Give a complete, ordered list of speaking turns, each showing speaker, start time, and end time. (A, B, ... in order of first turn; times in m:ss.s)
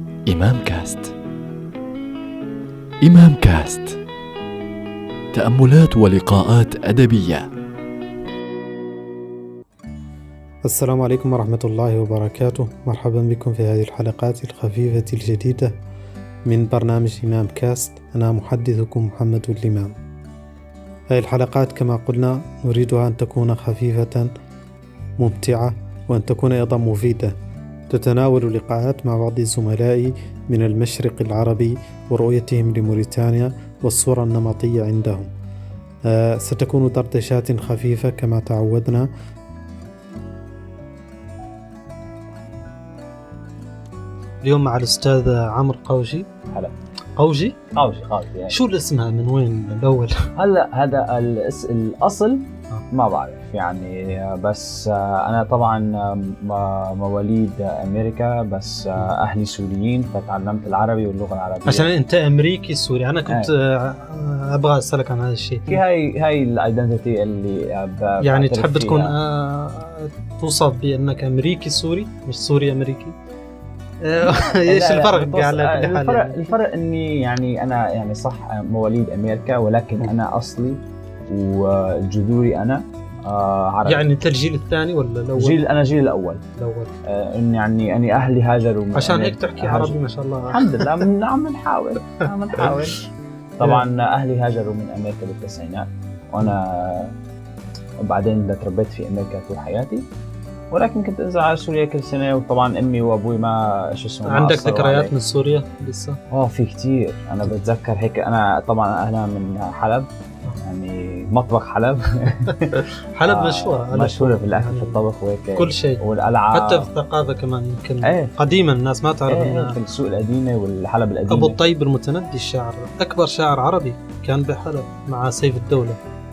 0:00.3-0:01.1 A
0:03.0-0:04.0 A
0:05.3-0:07.5 A
0:10.6-0:15.7 B
0:16.5-0:19.9 B
0:21.1-0:24.3 B
0:25.2-0:27.3 B
0:27.9-0:35.3 B
0:36.1-0:39.1 B
0:44.4-0:46.3 B
0:46.5-0:46.7 C
0:47.2-0:47.6 B
0:47.7-0:48.6 C
0:48.5-0:50.2 B
0:50.4-1:01.9 C
1:01.6-1:05.8 B
1:05.7-1:09.1 C
1:08.2-1:13.2 B
1:14.0-1:16.5 B
1:14.2-1:24.1 C
1:23.8-1:25.6 B
1:25.4-1:26.4 C
1:26.6-1:26.9 B
1:27.0-1:33.0 C
1:28.9-1:31.0 B
1:32.3-1:32.8 B
1:33.6-1:37.1 C
1:38.0-1:40.1 C
1:40.7-1:45.1 C
1:44.3-1:46.2 B
1:46.3-1:50.1 C
1:50.6-1:56.9 C
1:53.1-1:55.0 B
1:55.5-1:59.8 B
1:58.0-1:58.3 C
1:59.3-2:01.6 C
2:01.3-2:06.0 B